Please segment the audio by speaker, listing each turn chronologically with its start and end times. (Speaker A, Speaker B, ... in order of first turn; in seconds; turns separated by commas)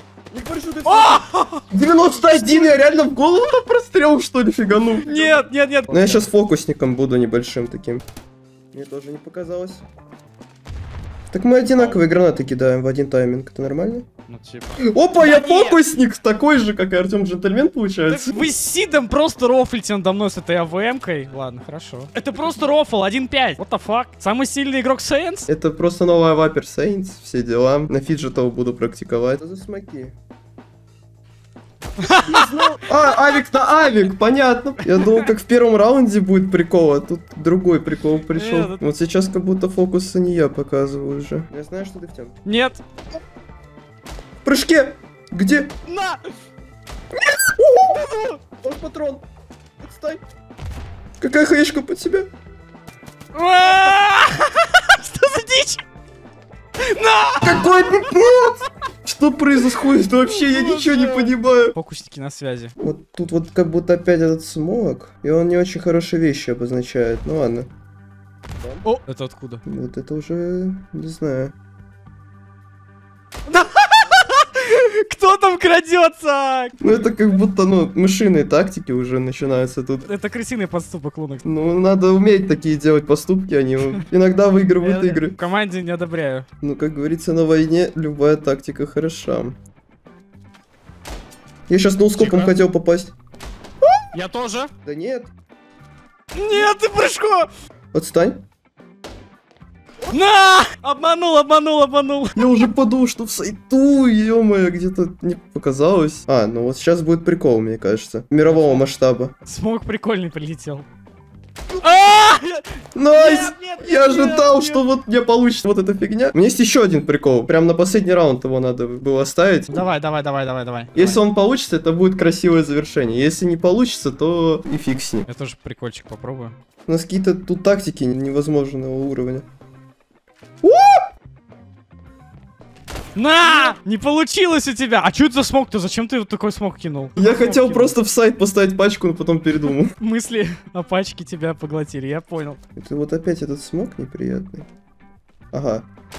Speaker A: 0.3-8.0, Speaker B: 0.9-1.6, Speaker B: 2.3-2.7, Speaker B: 5.0-6.2, Speaker A: 8.7-9.8, Speaker A: 11.3-14.1, Speaker B: 11.8-12.0, Speaker B: 14.3-15.8, Speaker A: 14.8-18.5, Speaker B: 18.1-25.5, Speaker A: 25.5-30.1, Speaker B: 32.0-32.5, Speaker A: 32.2-42.4, Speaker B: 34.9-35.2, Speaker B: 38.3-38.8, Speaker B: 42.5-42.8, Speaker A: 44.4-45.7, Speaker B: 45.9-46.2, Speaker A: 47.5-49.2, Speaker B: 47.9-48.3, Speaker A: 49.8-50.2, Speaker A: 51.2-52.3, Speaker B: 53.3-55.8, Speaker B: 56.8-57.9, Speaker A: 57.4-61.8, Speaker B: 60.3-62.7, Speaker A: 62.8-67.7, Speaker A: 68.5-68.8, Speaker B: 68.8-69.6, Speaker A: 69.7-71.5, Speaker B: 73.5-76.8, Speaker A: 76.8-80.1, Speaker B: 80.0-81.5, Speaker A: 81.5-85.4, Speaker B: 84.8-86.5, Speaker A: 86.6-89.6, Speaker A: 91.7-93.1, Speaker B: 92.2-92.5, Speaker B: 94.1-94.7, Speaker A: 94.8-95.3, Speaker B: 96.3-97.5, Speaker A: 97.9-98.4, Speaker B: 100.1-102.6, Speaker A: 102.4-109.3, Speaker B: 108.5-108.8, Speaker B: 109.5-110.8, Speaker B: 111.8-114.8, Speaker A: 113.0-119.9, Speaker B: 119.7-121.2, Speaker A: 120.9-125.3, Speaker B: 125.3-126.5, Speaker A: 126.9-129.4, Speaker A: 130.6-131.1, Speaker B: 133.2-137.9, Speaker A: 133.4-133.7, Speaker A: 137.2-139.9, Speaker B: 140.0-142.6, Speaker A: 142.8-144.7, Speaker A: 145.5-145.9